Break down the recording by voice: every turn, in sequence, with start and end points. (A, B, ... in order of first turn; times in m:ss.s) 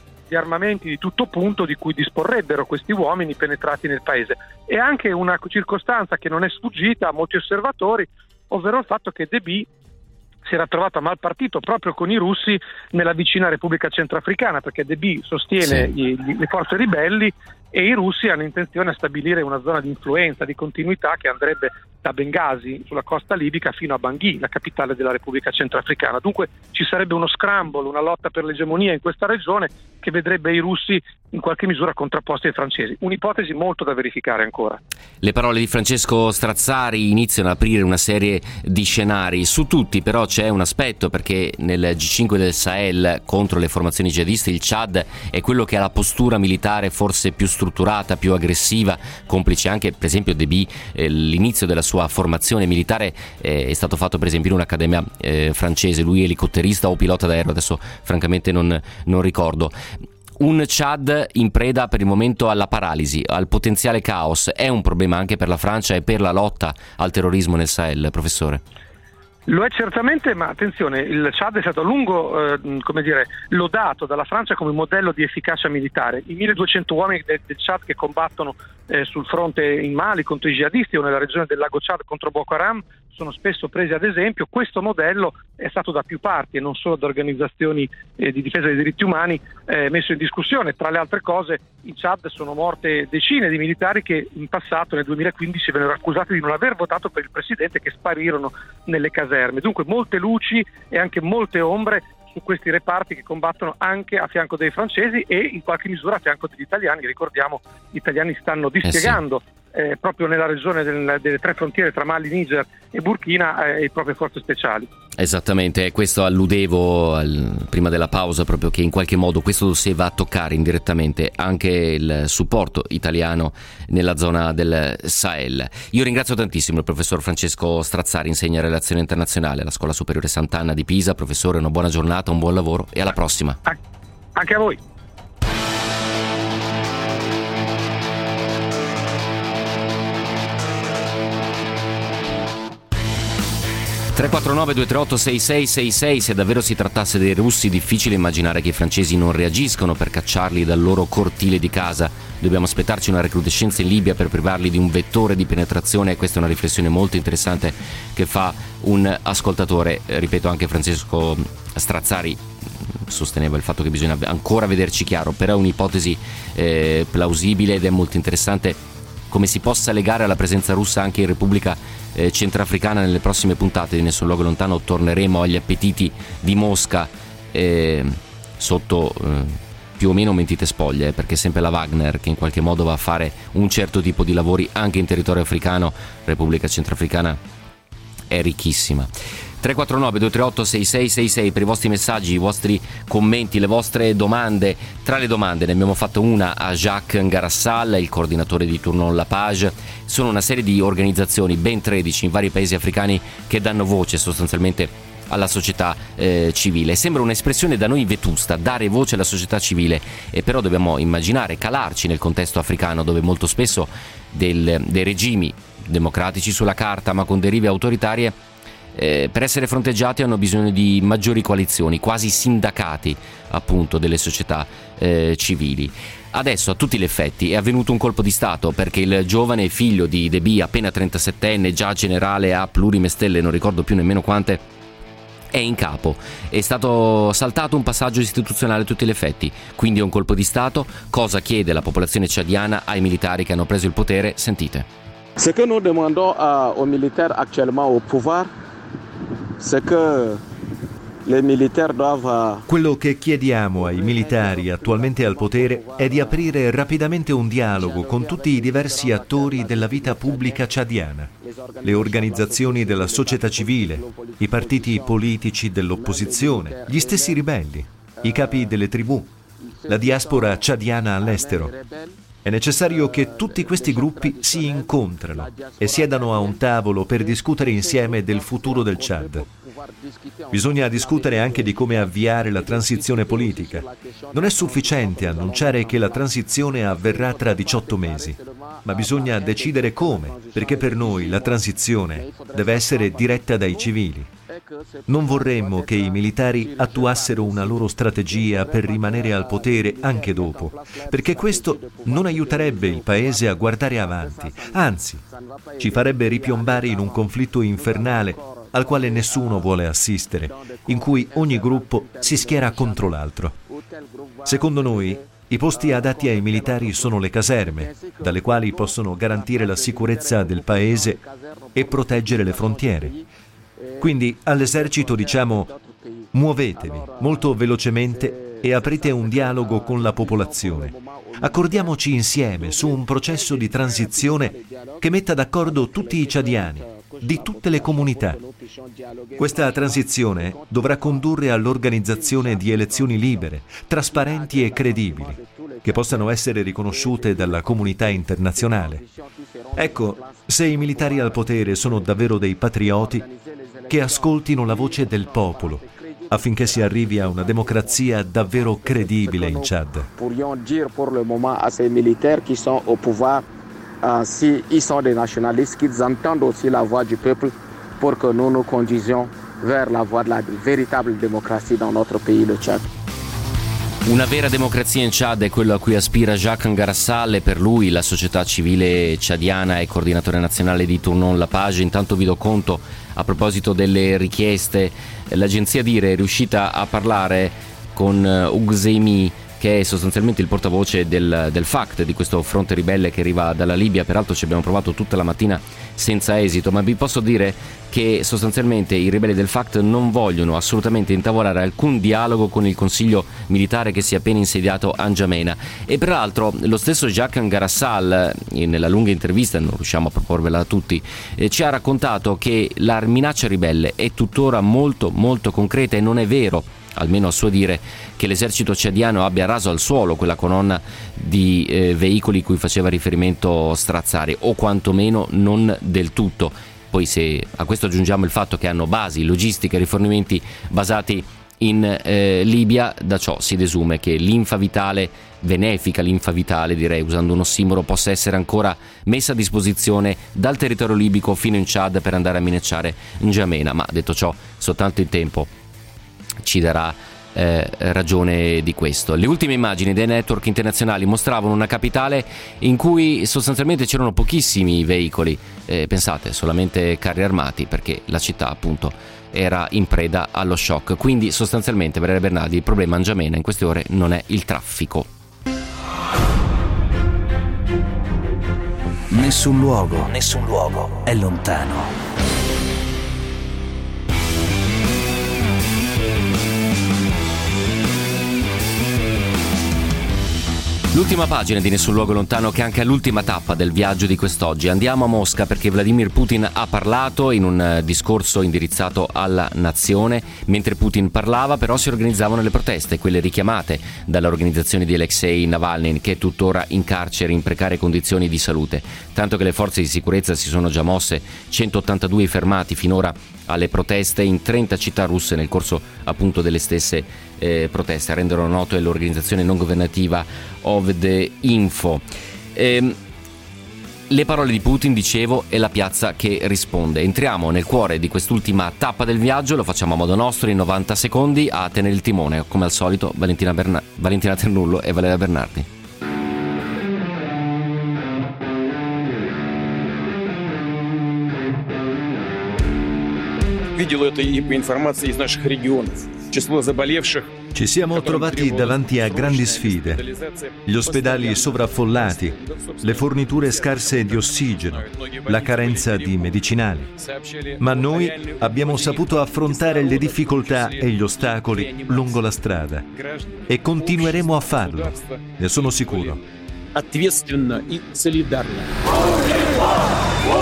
0:00.3-0:09.7 A
0:10.5-0:34.8 A
0:15.6-0:15.9 B
0:35.2-0:59.8 B
1:00.4-1:08.6 B
1:09.5-1:54.9 A
1:48.8-1:49.2 B
1:55.2-2:13.6 B
2:14.4-2:14.8 A
2:24.2-2:42.4 B
2:43.1-2:48.8 B
2:49.3-3:07.4 B
3:08.3-3:09.1 B
3:09.6-3:38.4 B
3:39.0-3:54.6 B
3:55.5-4:04.9 B
4:05.4-4:08.5 C
4:09.6-4:10.4 C
4:11.2-4:12.6 C
4:12.7-4:21.3 D
4:13.8-4:16.5 C
4:17.8-4:20.8 C
4:21.4-4:25.2 C
4:21.8-4:29.3 D
4:25.9-4:27.4 C
4:28.2-4:28.7 C
4:29.7-4:32.2 C
4:29.9-4:31.7 D
4:32.4-4:39.4 D
4:32.9-4:36.6 C
4:37.2-4:53.9 C
4:40.5-4:54.3 D
4:54.5-5:09.7 C
4:55.1-5:05.2 D
5:05.8-5:13.6 D
5:10.4-5:13.2 C
5:13.7-5:23.2 C
5:14.4-5:21.2 D
5:21.8-5:23.1 D
5:23.8-5:24.1 C
5:24.0-5:25.7 D
5:24.6-5:27.5 C
5:26.3-5:38.4 D
5:28.1-5:31.9 C
5:32.6-5:35.0 C
5:35.6-5:41.3 C
5:39.4-5:49.0 D
5:42.0-5:46.3 C
5:46.9-5:52.2 C
5:49.8-5:53.3 D
5:52.8-6:03.5 C
5:53.9-6:00.1 D
6:04.0-6:12.9 C
6:14.1-7:25.5 B
7:26.4-7:45.1 B
7:49.1-7:51.9 E
8:00.9-8:32.0 B
8:32.6-8:33.0 B
8:34.1-8:45.7 B
8:53.7-8:57.3 F
8:57.5-9:00.0 D
8:57.9-9:12.4 F
9:00.6-9:06.9 D
9:07.6-9:12.9 D
9:12.9-9:16.2 F
9:13.5-9:16.2 D
9:16.7-9:18.7 F